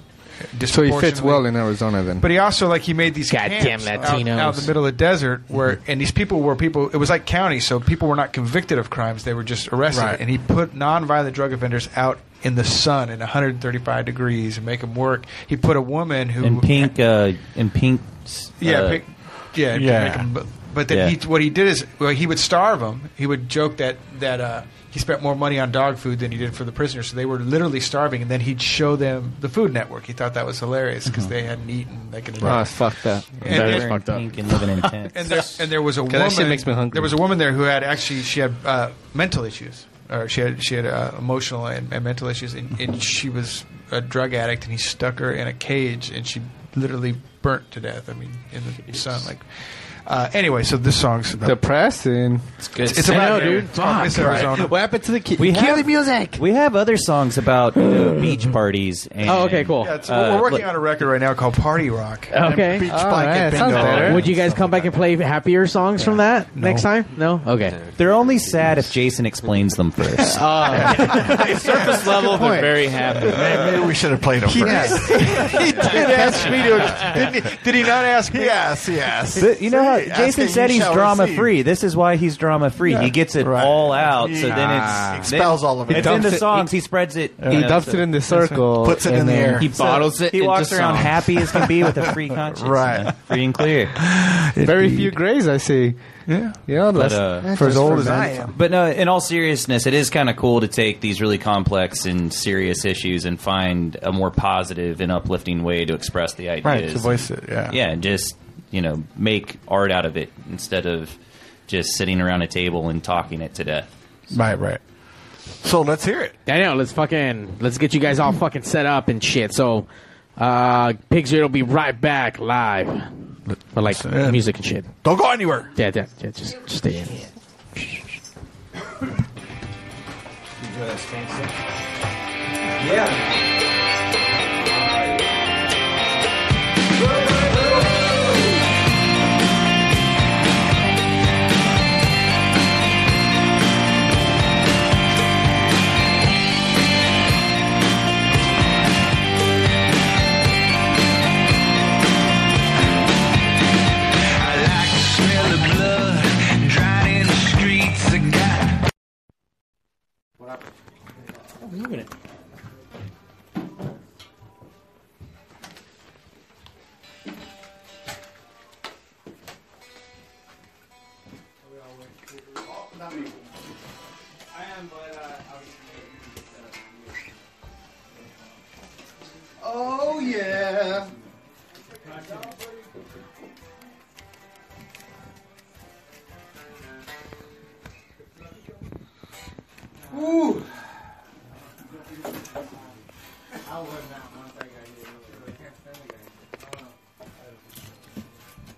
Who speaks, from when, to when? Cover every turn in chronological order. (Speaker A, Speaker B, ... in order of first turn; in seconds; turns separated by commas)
Speaker A: 0.5-16.9, Speaker B: 0.7-2.2, Speaker C: 3.3-4.7, Speaker B: 9.9-10.2, Speaker D: 16.4-19.0, Speaker A: 18.6-34.2, Speaker E: 19.7-20.3, Speaker B: 32.4-33.4, Speaker C: 33.4-34.6, Speaker D: 33.4-35.3, Speaker A: 35.1-51.6, Speaker B: 36.0-37.1, Speaker B: 51.4-53.1, Speaker F: 52.7-53.7, Speaker A: 52.8-54.9, Speaker C: 53.0-54.6, Speaker B: 54.0-56.2, Speaker D: 55.4-60.7, Speaker C: 55.6-56.3, Speaker C: 59.2-60.0, Speaker A: 59.7-62.3, Speaker C: 62.3-62.9, Speaker E: 62.4-64.8, Speaker B: 62.9-64.4, Speaker C: 63.9-67.8, Speaker A: 66.5-66.9, Speaker D: 68.0-70.8, Speaker B: 70.4-70.7, Speaker E: 70.7-72.5, Speaker F: 70.7-73.7, Speaker G: 72.2-72.8, Speaker E: 73.2-77.2, Speaker G: 74.5-76.9, Speaker A: 74.6-78.8, Speaker E: 78.3-81.5, Speaker D: 79.4-88.1, Speaker E: 82.9-86.5, Speaker B: 84.5-85.2, Speaker B: 85.9-86.7, Speaker E: 87.4-87.8, Speaker B: 87.5-89.8, Speaker A: 88.3-88.6, Speaker E: 88.8-89.9, Speaker D: 89.6-94.0, Speaker F: 89.7-91.2, Speaker E: 92.5-93.1, Speaker A: 94.5-95.2, Speaker B: 94.6-98.2, Speaker A: 96.3-96.6, Speaker D: 97.0-111.2, Speaker E: 97.5-98.5, Speaker A: 97.6-98.5, Speaker E: 106.6-107.8, Speaker D: 111.7-113.9, Speaker E: 114.3-114.8, Speaker E: 115.6-116.4, Speaker C: 116.5-119.9, Speaker C: 120.4-123.1, Speaker C: 123.7-124.9, Speaker E: 123.9-124.4, Speaker E: 125.0-125.7, Speaker C: 125.7-127.3, Speaker H: 154.2-158.8, Speaker C: 161.6-162.1, Speaker G: 179.6-181.1